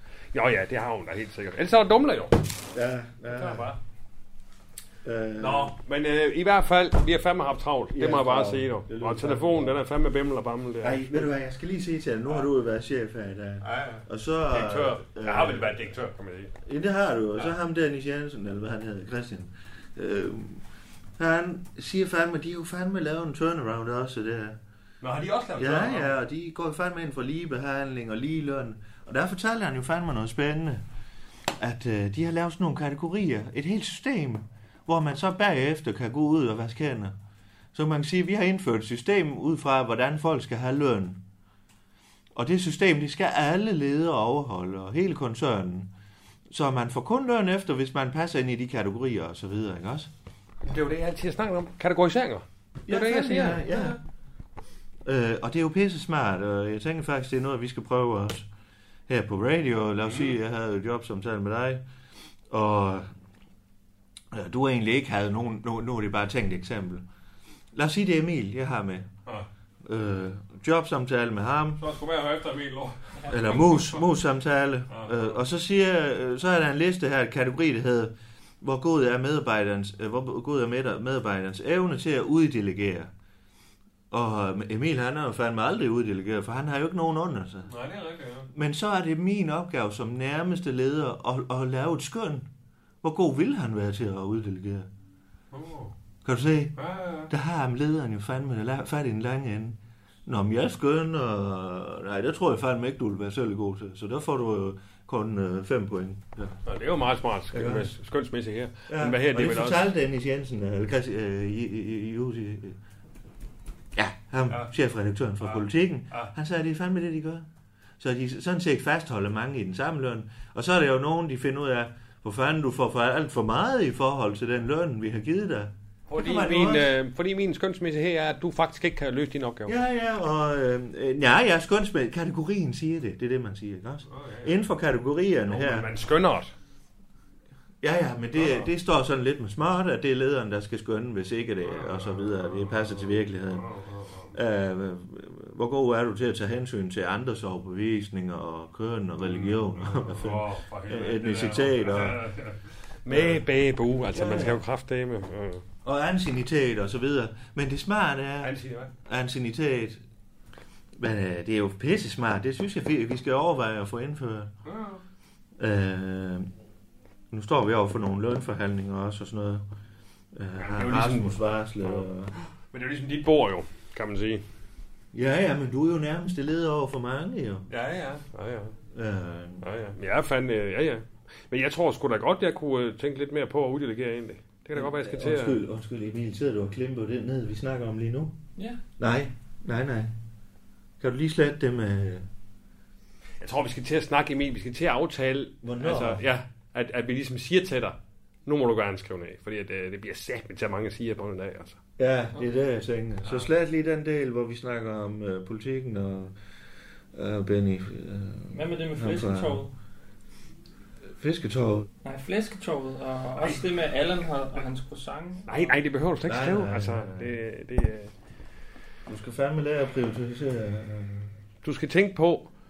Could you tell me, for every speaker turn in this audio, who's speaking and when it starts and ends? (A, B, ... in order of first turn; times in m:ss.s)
0:00.3-0:02.4 A
0:02.7-0:03.7 B
0:03.3-0:03.8 A
0:05.0-0:05.7 B
0:05.4-0:11.3 A
0:07.9-0:09.8 B
0:10.8-0:16.0 B
0:13.6-0:16.5 A
0:16.6-0:20.6 B
0:21.2-0:24.6 B
0:25.0-0:26.1 A
0:25.6-0:30.8 B
0:31.6-0:37.2 B
0:37.7-0:41.2 B
0:42.3-0:45.9 B
0:46.5-0:50.1 B
0:50.6-0:54.0 A
0:52.9-0:54.0 B
0:55.0-0:58.5 B
0:59.1-1:01.8 B
1:00.1-1:00.3 A
1:02.5-1:03.1 B
1:04.3-1:07.0 B
1:07.7-1:09.1 B
1:09.8-1:11.8 B
1:11.8-1:14.0 A
1:13.3-1:23.1 B
1:14.9-1:15.4 A
1:24.1-1:27.7 B
1:27.7-1:28.5 A
1:28.5-1:32.5 B
1:33.0-1:34.9 B
1:35.5-1:35.9 A
1:36.2-1:36.7 B
1:36.8-1:37.3 A
1:37.3-1:46.6 B
1:46.6-1:49.9 A
1:47.5-1:48.0 B
1:48.9-1:52.8 B
1:53.9-1:57.5 B
1:55.4-1:56.3 A
1:58.0-2:06.9 B
2:06.1-2:09.7 A
2:09.7-2:15.9 B
2:14.1-2:14.6 A
2:15.5-2:16.5 A
2:17.8-2:23.7 B
2:18.3-2:18.7 A
2:21.6-2:24.3 A
2:24.3-2:32.4 B
2:29.2-2:35.6 A
2:33.1-2:33.5 B
2:34.1-2:34.6 B
2:35.8-2:40.0 B
2:38.4-2:38.9 A
2:40.9-2:44.5 B
2:44.6-2:45.0 A
2:45.6-2:46.5 B
2:47.3-2:49.6 B
2:50.3-2:52.3 B
2:50.6-2:54.4 A
2:55.1-2:57.6 B
2:57.7-2:58.7 A
2:58.9-2:59.7 B
2:59.6-3:05.6 A
3:04.7-3:08.4 B
3:08.6-3:08.8 C
3:09.0-3:10.1 B
3:11.0-3:12.3 B
3:13.4-3:21.8 A
3:15.6-3:16.2 B
3:22.0-3:26.4 B
3:23.2-3:23.5 A
3:27.1-3:29.6 B
3:28.5-3:29.7 C
3:31.2-3:31.9 B
3:32.0-3:35.7 C
3:35.5-3:38.1 A
3:36.2-3:37.4 B
3:39.0-3:41.3 B
3:41.6-3:42.5 A